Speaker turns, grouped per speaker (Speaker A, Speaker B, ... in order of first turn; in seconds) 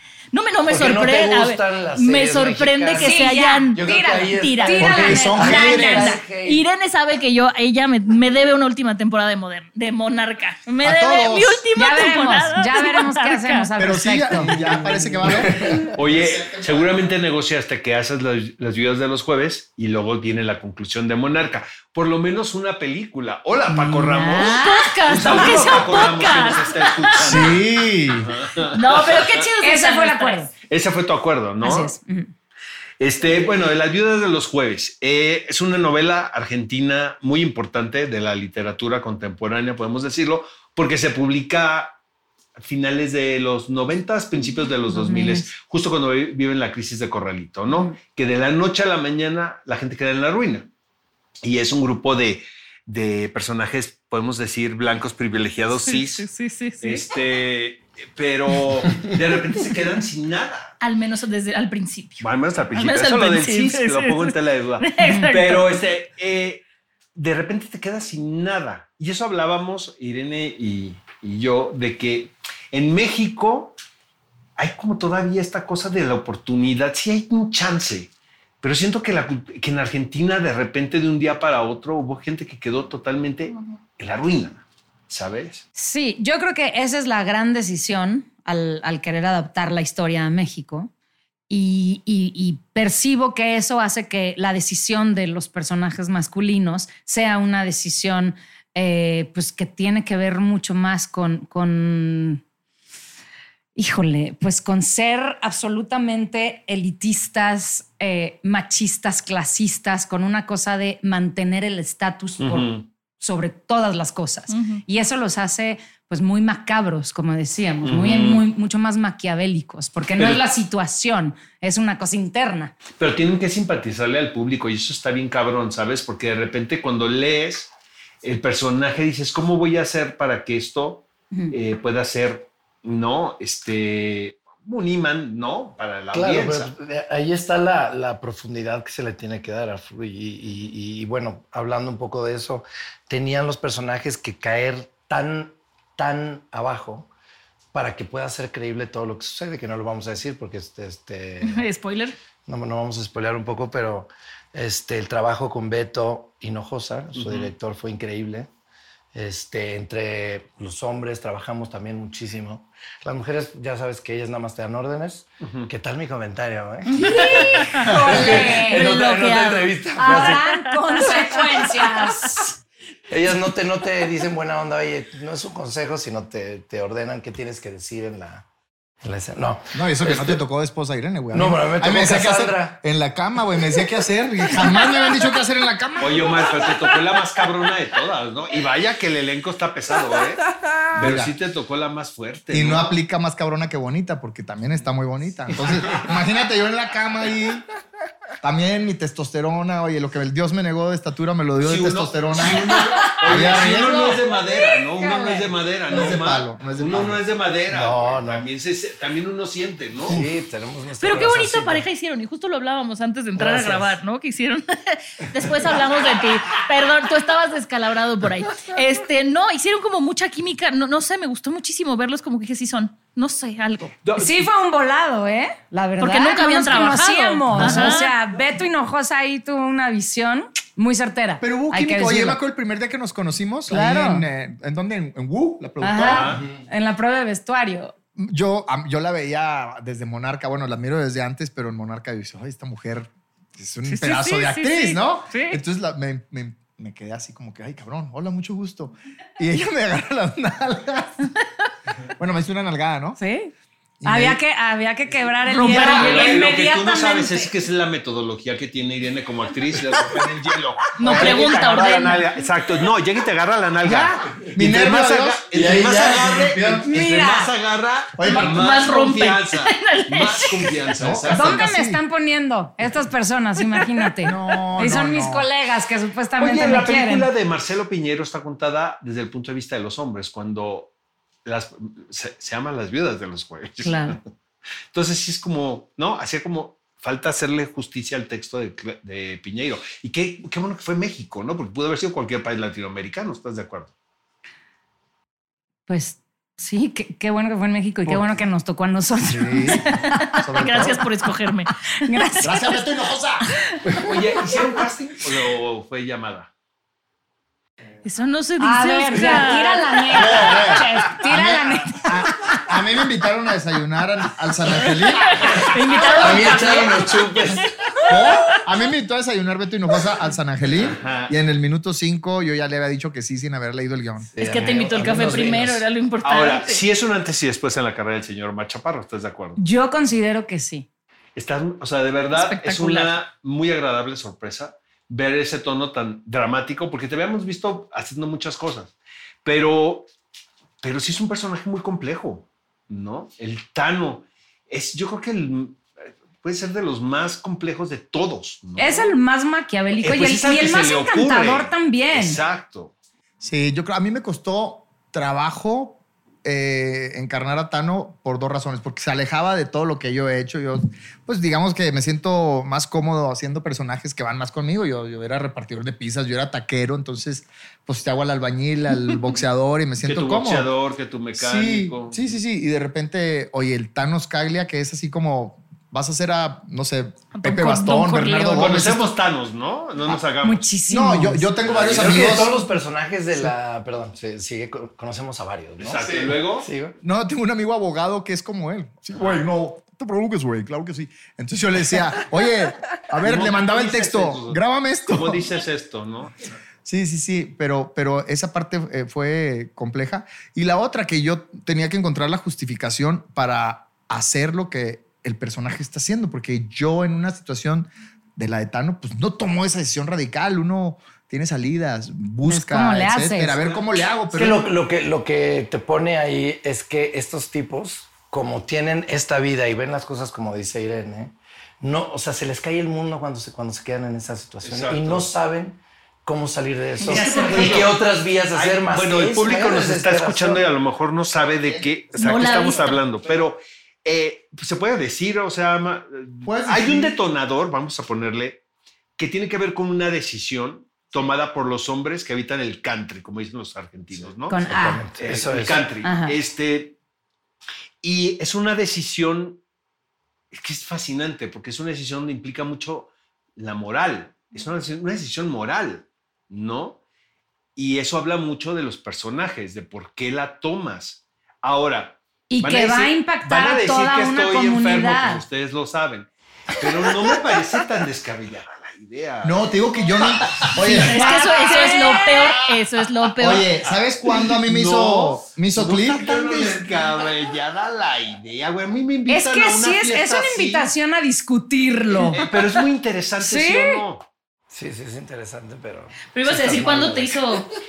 Speaker A: 0.3-13.7, 24.4-27.4, 28.7-30.5, 56.0-57.0, 60.8-65.8, 114.5-114.8, 151.4-152.2, 167.0-171.4, 211.0-224.0, 226.0-228.1, 243.9-245.6, 255.5-256.5, 261.0-262.3, 268.3-270.8, 273.8-274.1, 299.9-302.2, 308.0-310.6, 314.9-318.6, 324.4-326.8, 332.3-333.2, 377.3-378.4, 427.1-427.9, 432.1-433.0, 470.9-473.7, 486.2-487.7
Speaker B: 0.7-6.6, 15.2-15.9, 136.1-147.1, 147.7-151.7, 152.5-158.5, 159.1-170.4, 173.1-178.5, 179.0-180.4, 181.3-182.8, 207.7-208.5, 210.1-211.8, 213.4-214.0, 265.5-266.9, 315.4-317.7, 324.3-325.8, 381.7-387.0, 414.3-430.7, 444.6-445.9, 476.4-476.9, 484.7-487.7
Speaker C: 3.0-6.2, 11.7-14.5, 23.7-25.4, 29.6-30.5, 31.6-32.3, 44.9-45.5, 85.8-90.9, 91.5-102.4, 103.8-122.7, 167.0-168.8, 170.0-172.6, 204.9-205.5, 224.2-232.4, 233.7-234.2, 235.8-237.9, 253.2-253.5, 254.1-257.5, 266.8-267.5, 271.3-277.3, 283.8-284.2, 295.9-300.6, 302.0-302.8, 308.6-312.6, 329.6-330.9, 348.8-352.4, 377.6-378.7, 380.4-381.5, 412.4-413.6, 444.5-445.0, 446.0-446.4, 462.5-465.4, 470.9-472.3, 479.3-482.4, 483.4-484.0
Speaker D: 4.8-6.1, 10.8-11.6, 13.8-17.1, 27.2-28.3, 179.7-186.6, 190.9-191.3, 192.5-197.7, 198.4-204.2, 205.9-207.2, 227.6-227.9, 231.4-236.4, 238.2-251.2, 252.2-253.2, 254.0-254.4, 261.1-261.5, 263.8-265.5, 266.5-266.8, 268.2-268.6, 271.0-272.0, 274.2-275.5, 298.1-298.4, 299.3-301.0, 302.4-303.4, 310.1-316.5, 318.1-324.3, 353.4-370.7, 371.4-379.1, 380.9-382.6, 387.0-395.5, 396.8-414.7, 436.4-437.1, 469.4-471.5, 473.4-476.4
Speaker E: 14.5-29.4, 30.7-31.9, 33.0-42.0, 42.6-50.7, 51.4-56.3, 56.8-60.7, 62.2-66.6, 67.2-73.8, 74.6-78.1, 78.6-85.6, 112.4-112.9, 117.8-118.4, 120.2-120.4, 123.0-127.7, 128.2-136.7, 157.2-157.5, 165.4-165.7, 186.0-192.9, 201.6-210.2, 224.0-224.4, 236.0-236.5, 255.7-271.6, 276.4-280.9, 281.4-284.3, 284.9-293.9, 303.9-306.5, 320.8-321.3, 326.2-329.6, 331.4-338.9, 339.4-340.1, 340.8-345.9, 346.4-349.1, 350.0-352.9, 370.0-372.4, 378.5-380.7, 381.7-382.4, 385.8-386.7, 393.2-396.4, 424.6-425.3, 427.0-438.6, 439.2-444.6, 445.2-446.9, 448.0-449.6, 450.5-457.0, 457.8-471.1, 473.9-480.9, 482.3-484.3